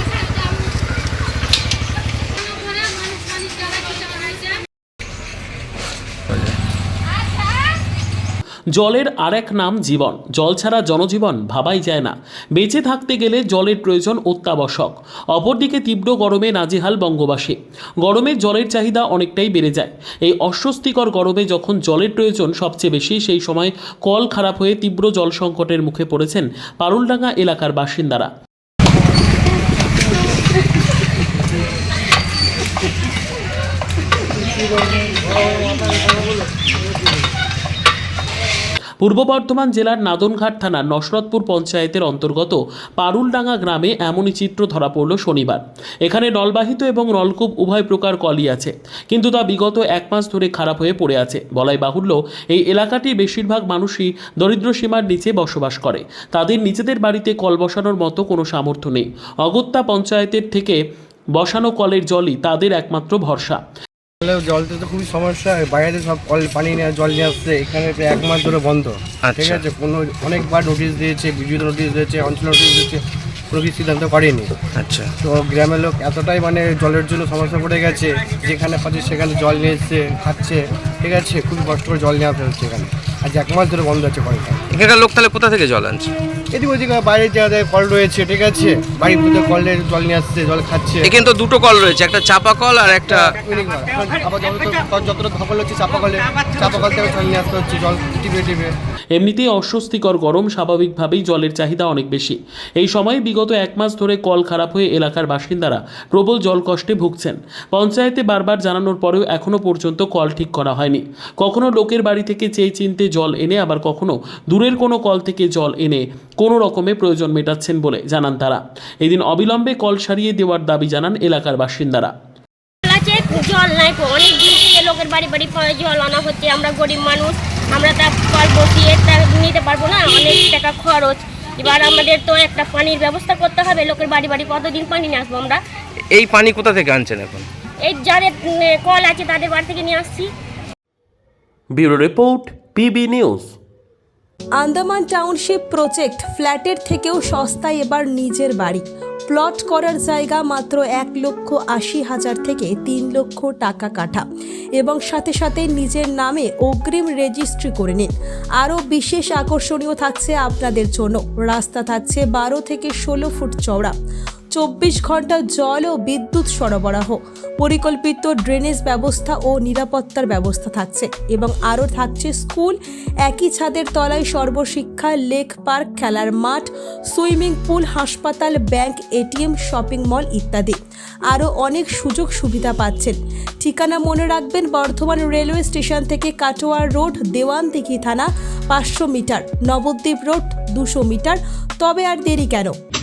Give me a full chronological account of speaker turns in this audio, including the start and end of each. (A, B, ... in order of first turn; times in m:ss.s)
0:06.3-0:06.5 A
0:08.7-0:28.3 B
0:39.0-1:00.8 B
1:01.4-1:03.6 B
1:04.2-1:14.5 C
1:14.8-1:15.1 A
1:15.2-1:24.6 C
1:24.7-1:26.1 A
1:26.5-1:31.1 C
1:31.0-1:33.0 A
1:32.9-1:38.7 C
1:39.1-2:02.1 B
2:02.8-2:15.6 D
2:16.2-2:17.5 A
2:17.8-2:20.3 D
2:24.6-2:34.2 E
2:34.8-2:43.9 E
2:44.5-3:00.8 E
3:01.3-3:12.7 E